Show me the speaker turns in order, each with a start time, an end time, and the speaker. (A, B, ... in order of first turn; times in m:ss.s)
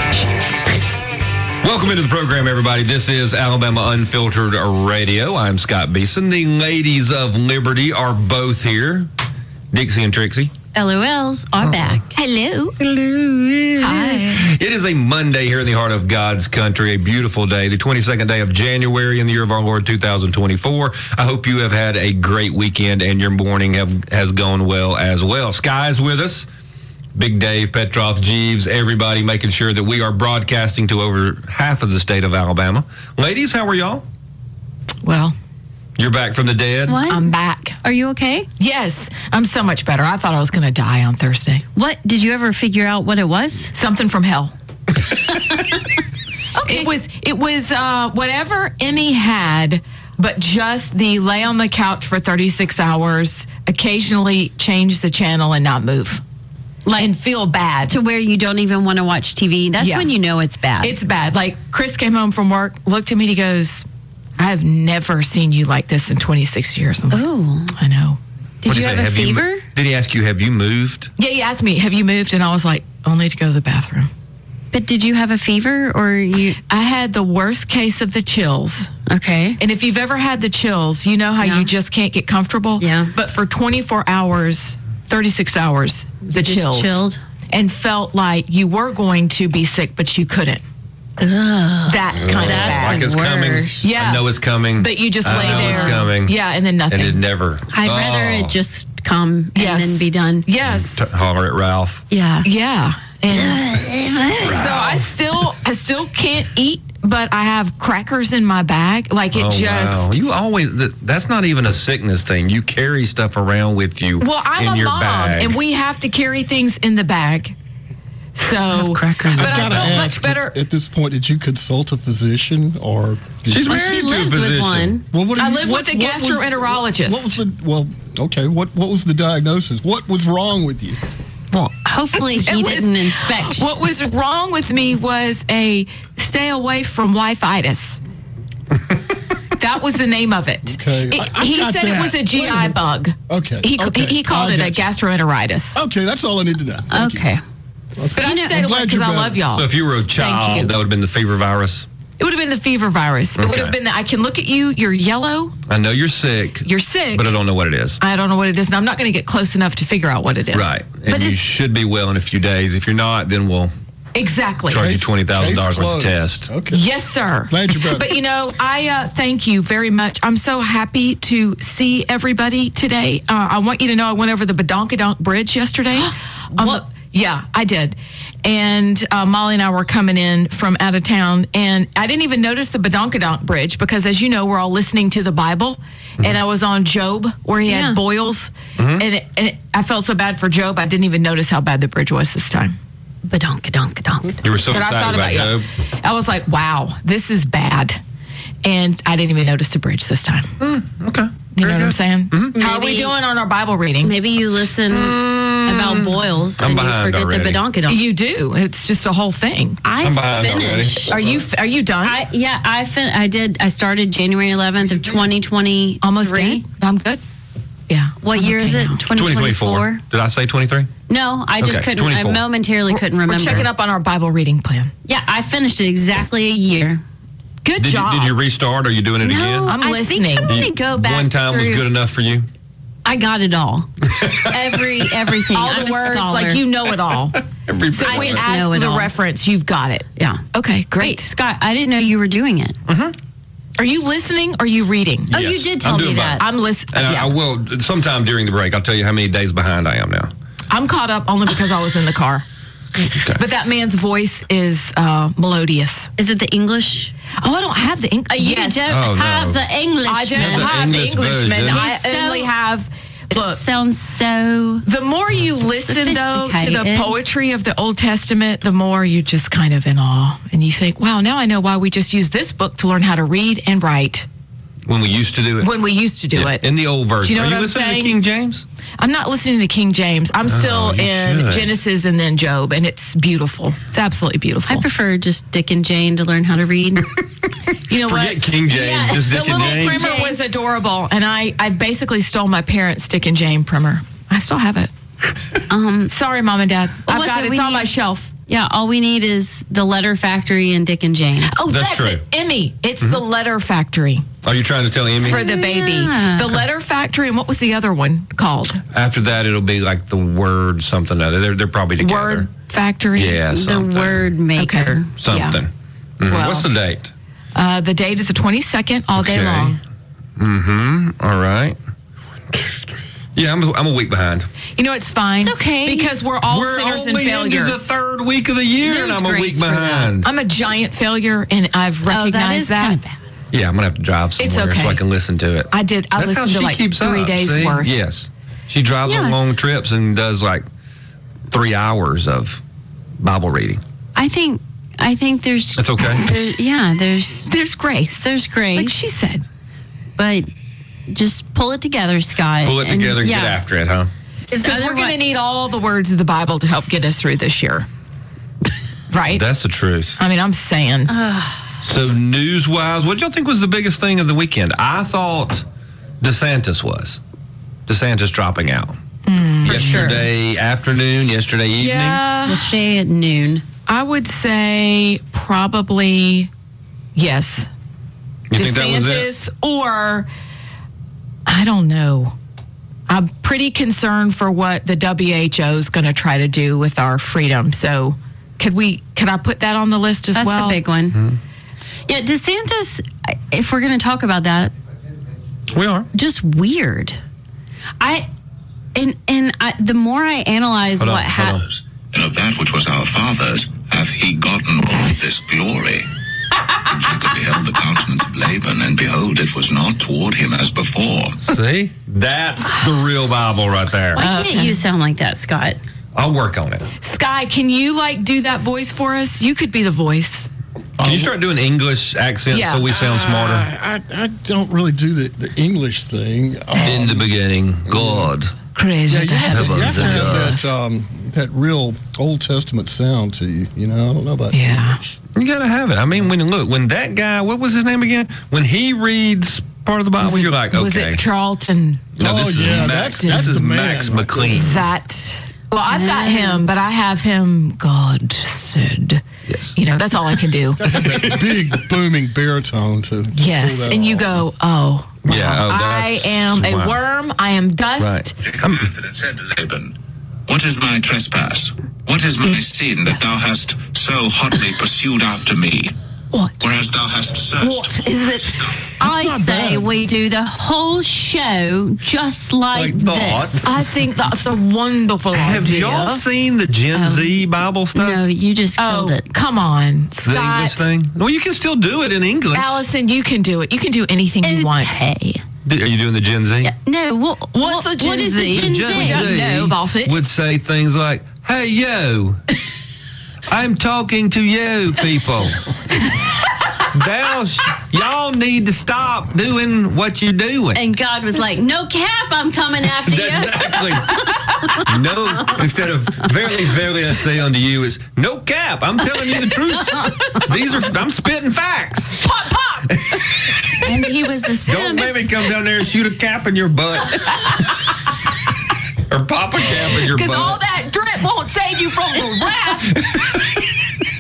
0:01.6-0:09.1 A
0:09.7-0:10.5 A
0:10.7-0:12.0 B
0:11.6-0:12.0 A
0:12.1-0:12.8 C
0:12.8-0:26.5 A
0:13.8-0:14.4 C
0:27.1-0:34.0 A
0:35.0-0:35.4 C
0:36.0-0:37.0 A
0:36.8-0:37.3 B
0:37.1-0:37.8 C
0:37.8-0:38.5 B
0:38.6-0:41.6 C
0:41.7-0:43.7 B
0:43.7-0:44.5 C
0:45.3-0:45.7 B
0:46.5-0:46.9 B
0:46.6-0:56.2 C
0:56.8-0:57.1 B
0:57.0-0:58.0 C
0:57.9-1:01.0 B
0:59.8-1:00.1 C
1:00.8-1:03.8 C
1:04.4-1:08.2 C
1:07.1-1:07.7 B
1:08.6-1:09.6 B
1:08.7-1:11.1 A
1:11.2-1:14.1 C
1:14.7-1:16.6 B
1:16.7-1:18.9 C
1:19.0-1:19.6 B
1:19.6-1:27.0 C
1:21.4-1:21.7 B
1:22.8-1:23.1 B
1:26.2-1:27.2 B
1:27.5-1:30.6 C
1:31.2-1:33.9 B
1:31.8-1:33.1 C
1:32.1-1:36.4 A
1:33.8-1:37.2 C
1:35.3-1:36.0 B
1:36.9-1:38.6 A
1:37.7-1:40.5 B
1:39.5-1:41.1 C
1:40.6-1:42.0 A
1:42.1-1:42.5 B
1:42.4-1:43.7 C
1:43.3-1:44.8 B
1:44.4-1:45.0 A
1:44.4-1:50.2 C
1:49.3-1:55.6 A
1:54.2-1:57.5 C
1:58.3-2:00.6 C
1:58.7-2:00.0 A
1:59.3-2:03.7 D
2:03.5-2:05.0 A
2:03.6-2:05.0 B
2:05.1-2:11.0 D
2:05.3-2:07.4 C
2:11.5-2:18.0 C
2:11.5-2:13.7 B
2:19.6-2:25.8 C
2:20.7-2:22.8 D
2:23.3-2:24.8 D
2:25.7-2:27.3 D
2:26.9-2:27.4 B
2:28.0-2:29.5 D
2:28.1-2:30.7 C
2:28.2-2:28.6 B
2:29.5-2:31.9 A
2:32.2-2:35.5 C
2:33.4-2:33.8 A
2:35.7-2:38.0 A
2:36.6-2:37.4 C
2:38.0-2:41.4 C
2:40.5-2:43.7 A
2:44.1-2:44.9 C
2:44.7-2:46.5 A
2:44.7-2:46.8 D
2:46.7-3:12.8 C
2:47.5-2:48.2 D
2:56.5-2:56.8 B
3:07.6-3:08.0 B
3:08.8-3:09.0 A
3:13.2-3:14.4 B
3:14.4-3:15.7 A
3:14.7-3:18.0 C
3:18.6-3:20.5 C
3:20.6-3:22.5 A
3:21.5-3:24.2 C
3:22.5-3:23.1 B
3:24.0-3:28.0 B
3:24.9-3:27.6 A
3:27.8-3:29.8 C
3:29.8-3:31.2 B
3:30.0-3:31.4 A
3:31.1-3:32.2 C
3:32.0-3:36.6 B
3:36.0-3:37.2 C
3:37.9-3:39.0 C
3:38.2-3:40.0 B
3:39.1-3:40.9 A
3:41.1-3:43.7 B
3:41.6-3:42.4 A
3:42.9-3:44.9 C
3:45.0-3:47.0 B
3:47.6-3:48.4 C
3:47.8-3:49.8 A
3:49.2-3:51.9 B
3:49.7-3:50.6 C
3:50.5-3:52.5 A
3:53.0-3:53.9 B
3:54.1-3:55.1 A
3:54.4-3:56.6 B
3:55.5-4:01.3 C
3:57.5-3:58.4 A
3:58.0-3:59.1 B
4:00.2-4:00.4 B
4:01.0-4:02.8 B
4:02.9-4:03.1 A
4:03.8-4:05.4 C
4:05.3-4:06.4 B
4:05.3-4:10.3 A
4:06.4-4:07.3 C
4:10.7-4:12.4 C
4:13.0-4:13.4 A
4:13.3-4:16.1 C
4:16.2-4:17.1 B
4:17.4-4:18.9 C
4:18.3-4:21.0 B
4:18.9-4:19.6 A
4:20.0-4:23.6 C
4:20.4-4:21.8 A
4:21.6-4:22.5 B
4:23.3-4:24.8 B
4:24.8-4:34.2 C
4:25.6-4:27.2 B
4:34.8-4:35.7 A
4:35.6-4:36.6 C
4:36.3-4:38.6 A
4:37.2-4:38.2 C
4:39.0-4:44.8 C
4:40.5-4:41.8 A
4:44.7-4:47.1 B
4:47.9-4:54.9 C
4:47.9-4:50.1 A
4:48.7-4:50.4 B
4:55.7-4:56.1 B
4:56.1-4:58.3 C
4:57.0-4:57.9 B
4:58.5-5:01.5 B
5:01.4-5:04.2 C
5:01.7-5:02.2 A
5:04.4-5:05.4 A
5:05.2-5:06.6 B
5:05.2-5:08.8 C
5:08.9-5:12.5 A
5:12.0-5:13.4 C
5:13.1-5:14.3 A
5:13.5-5:15.1 B
5:14.6-5:15.6 C
5:15.2-5:17.1 A
5:16.2-5:16.7 C
5:17.5-5:19.8 C
5:19.1-5:19.8 A
5:20.4-5:21.8 A
5:23.3-5:24.5 A
5:24.8-5:27.9 C
5:25.4-5:26.1 B
5:26.4-5:30.3 A
5:28.8-5:30.1 B
5:30.2-5:33.0 C
5:32.0-5:33.2 B
5:33.5-5:40.6 A
5:34.4-5:35.0 C
5:35.7-5:37.9 C
5:39.0-5:39.4 B
5:41.5-5:42.6 A
5:43.2-5:43.8 A
5:44.1-5:47.5 B
5:45.8-5:46.2 A
5:47.5-5:49.4 C
5:48.1-5:49.1 B
5:50.2-5:50.5 B
5:51.1-5:53.6 B
5:52.6-5:54.1 A
5:54.5-5:55.2 B
5:54.6-5:57.9 C
5:59.1-5:59.4 C
5:59.3-6:00.2 A
6:00.2-6:01.1 C
6:01.1-6:01.7 B
6:01.8-6:05.6 A
6:06.2-6:07.2 A
6:07.9-6:09.0 A
6:09.2-6:10.2 C
6:09.6-6:12.2 A
6:09.7-6:10.3 B
6:11.8-6:12.7 C
6:12.4-6:13.6 B
6:13.9-6:16.5 C
6:17.2-6:17.7 C
6:18.5-6:19.3 A
6:18.5-6:20.3 C
6:21.4-6:22.3 C
6:23.1-6:30.8 C
6:30.3-6:31.2 B
6:31.1-6:31.4 A
6:32.1-6:34.7 B
6:35.7-6:36.1 A
6:36.1-6:37.2 B
6:38.0-6:38.3 B
6:38.9-6:41.6 B
6:41.0-6:41.7 A
6:42.1-6:46.1 E
6:46.9-6:51.4 E
6:51.4-6:54.2 A
6:52.7-6:53.0 B
6:54.1-6:55.8 B
6:54.2-6:54.8 C
6:56.1-6:56.9 A
6:57.0-7:00.5 C
7:01.0-7:01.3 D
7:01.0-7:03.7 A
7:02.5-7:02.9 C
7:02.9-7:07.3 D
7:06.8-7:08.5 A
7:07.8-7:08.3 D
7:08.7-7:10.7 C
7:09.1-7:15.2 D
7:09.5-7:10.6 A
7:14.5-7:15.0 C
7:15.3-7:21.2 A
7:20.2-7:23.6 C
7:22.2-7:24.8 A
7:22.2-7:24.8 D
7:24.5-7:29.2 C
7:25.8-7:26.7 B
7:29.5-7:29.8 A
7:29.7-7:30.9 C
7:30.8-7:34.4 D
7:31.0-7:31.8 A
7:33.3-7:38.3 C
7:35.2-7:37.0 A
7:38.0-7:38.8 A
7:38.4-7:39.9 E
7:40.5-7:45.9 E
7:46.3-7:46.6 C
7:46.6-7:48.1 E
7:47.6-7:49.6 C
7:49.0-7:53.6 B
7:49.2-7:49.7 D
7:52.7-7:53.7 A
7:53.6-7:56.2 C
7:55.3-7:58.2 A
7:56.9-7:59.3 B
7:58.8-8:00.9 C
8:00.2-8:02.8 A
8:02.5-8:05.0 C
8:04.4-8:05.4 B
8:05.6-8:06.7 A
8:06.6-8:09.5 B
8:07.5-8:10.2 C
8:08.5-8:12.4 A
8:13.5-8:15.6 A
8:16.9-8:20.8 A
8:20.7-8:25.7 B
8:22.9-8:32.2 A
8:29.7-8:30.1 B
8:32.2-8:33.2 C
8:32.9-8:33.8 A
8:33.8-8:35.2 B
8:34.6-8:38.1 A
8:39.1-8:40.6 A
8:40.0-8:43.0 C
8:42.8-8:43.7 A